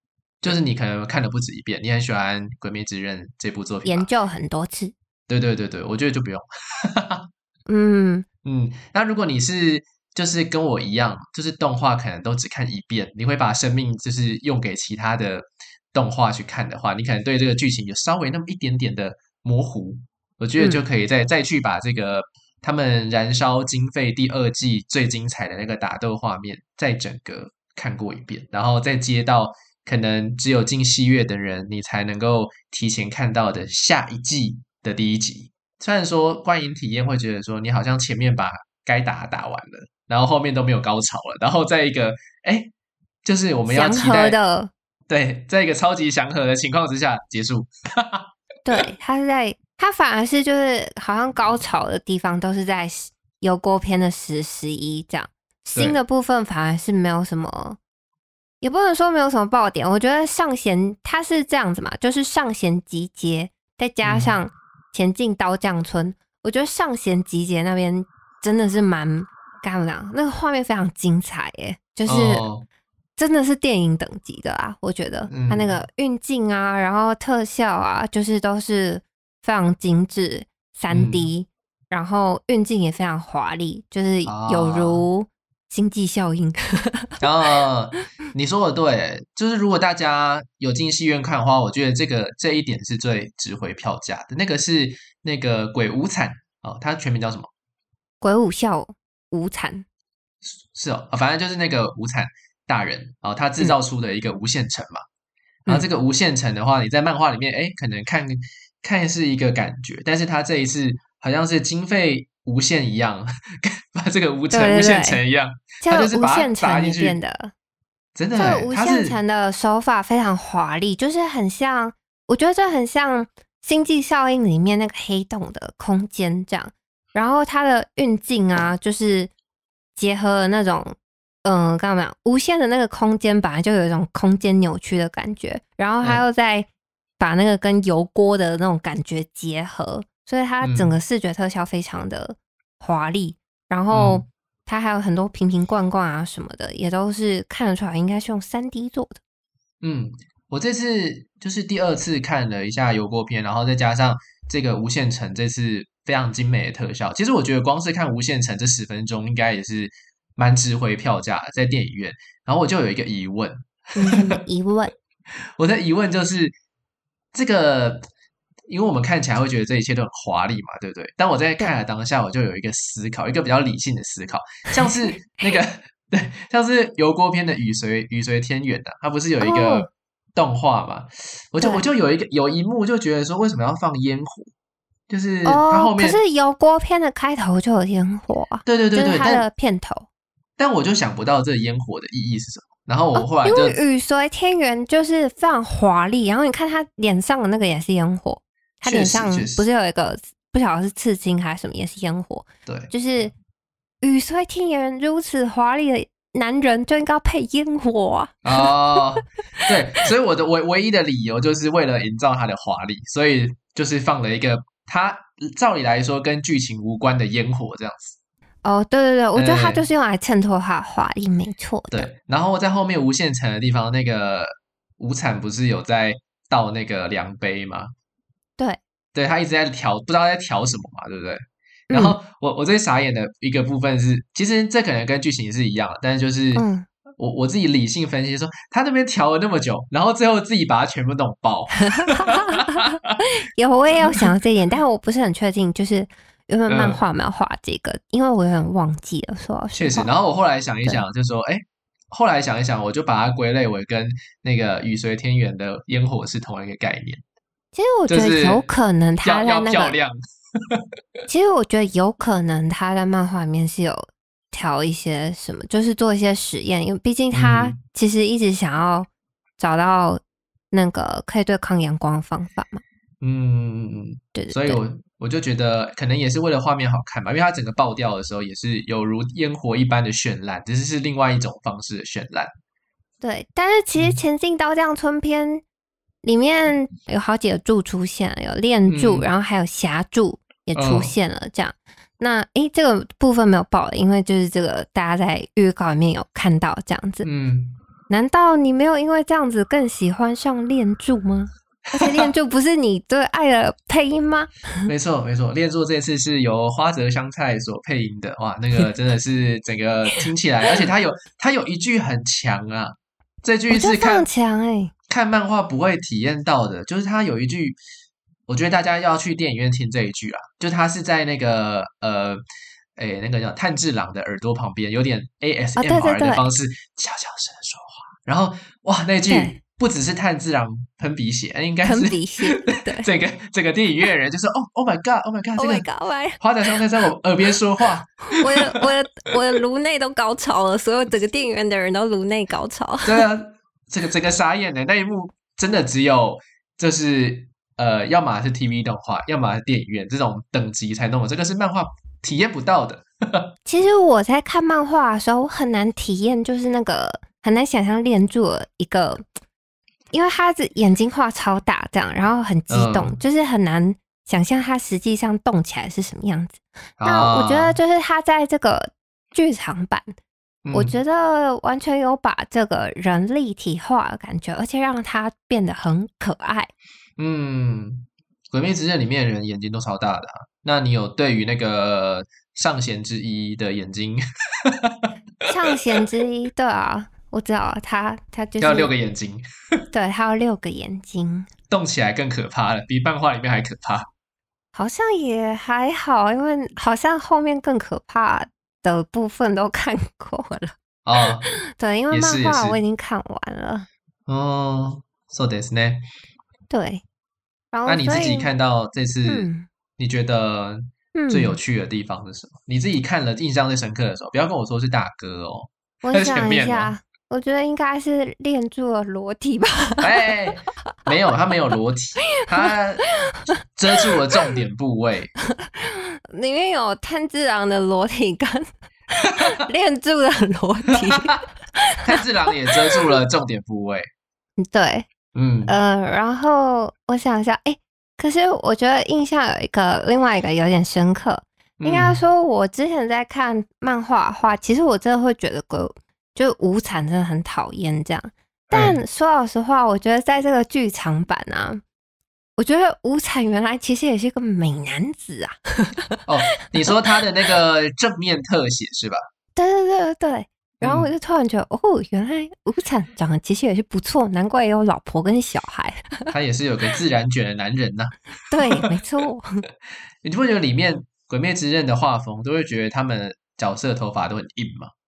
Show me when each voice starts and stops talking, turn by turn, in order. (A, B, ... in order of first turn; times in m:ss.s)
0:00.4-0:04.1 A
0:03.8-0:05.0 B
0:05.3-0:07.3 A
0:07.7-0:08.3 B
0:08.4-0:42.7 A
0:43.2-0:44.4 A
0:43.7-0:44.7 B
0:45.1-0:48.3 A
0:48.7-0:57.8 B
0:58.6-1:12.4 B
1:04.0-1:04.3 A
1:12.1-1:12.7 A
1:13.2-1:27.1 B
1:15.3-1:15.8 A
1:20.9-1:21.3 A
1:24.3-1:25.1 A
1:27.2-1:37.5 A
1:38.2-1:39.8 B
1:40.4-1:45.0 A
1:45.7-1:57.2 A
1:54.5-1:55.2 B
1:55.8-1:57.5 B
1:58.2-1:59.2 A
1:58.4-2:09.3 B
2:10.0-2:16.7 B
2:17.2-2:29.2 B
2:20.6-2:21.0 A
2:23.9-2:24.2 A
2:29.8-2:44.4 A
2:44.0-2:44.9 B
2:45.6-2:46.5 A
2:47.3-2:48.1 A
2:48.7-3:04.5 A
2:59.4-2:59.9 B
3:05.1-3:06.2 A
3:05.4-3:10.1 B
3:08.6-3:09.5 A
3:10.6-3:13.8 A
3:13.2-3:23.3 B
3:18.8-3:19.7 A
3:22.7-3:22.9 A
3:24.0-3:29.0 B
3:28.4-3:38.2 A
3:38.6-3:42.1 B
3:39.4-3:39.9 A
3:41.9-3:47.9 A
3:49.1-3:56.6 A
3:51.9-3:52.2 B
3:56.6-3:56.9 B
3:57.2-4:03.1 A
4:01.8-4:10.1 B
4:03.9-4:04.3 A
4:06.7-4:07.0 A
4:09.8-4:17.2 A
4:17.7-4:20.0 B
4:18.1-4:18.7 A
4:19.2-4:20.2 A
4:21.3-4:29.1 B
4:27.3-4:27.8 A
4:29.6-4:32.8 B
4:33.2-4:42.5 A
4:34.4-4:34.8 B
4:43.2-4:45.6 B
4:46.2-4:57.3 B
4:48.9-4:49.3 A
4:50.8-4:51.1 A
4:57.2-4:57.8 A
4:58.1-5:04.9 B
5:02.0-5:02.3 A
5:04.9-5:14.3 A
5:13.7-5:14.9 B
5:15.1-5:17.8 A
5:18.5-5:22.4 A
5:23.0-5:35.9 A
5:25.8-5:26.5 B
5:29.3-5:29.6 B
5:31.8-5:33.1 B
5:35.6-5:36.8 B
5:36.4-5:38.9 A
5:38.3-5:43.3 B
5:43.0-5:53.5 A
5:53.7-5:59.2 B
6:00.1-6:10.1 B
6:02.7-6:03.2 A
6:07.0-6:07.8 A
6:10.6-6:11.0 A
6:10.7-6:16.7 B
6:17.2-6:25.5 A
6:25.5-6:28.9 B
6:28.6-6:29.8 A
6:29.9-6:31.5 B
6:31.7-6:34.1 A
6:34.7-6:40.8 B
6:41.0-6:41.5 A
6:41.5-6:43.9 B
6:42.1-6:42.8 A
6:44.3-6:46.0 A
6:46.7-6:47.0 B
6:47.7-6:48.5 B
6:47.9-6:49.5 A
6:49.2-6:49.7 B
6:50.0-6:56.9 A
6:51.2-6:51.6 B
6:56.0-7:00.3 B
7:00.0-7:03.1 A
7:02.4-7:02.7 B
7:03.7-7:05.3 A
7:05.6-7:12.2 B
7:12.0-7:14.1 A
7:14.6-7:15.1 B
7:15.4-7:15.8 A
7:15.7-7:31.8 B
7:21.8-7:22.2 A
7:28.7-7:29.0 A
7:32.6-7:36.9 B
7:36.3-7:39.2 A
7:39.6-7:46.3 B
7:40.8-7:41.1 A
7:46.3-7:48.9 A
7:48.5-7:49.6 B
7:50.2-7:54.9 A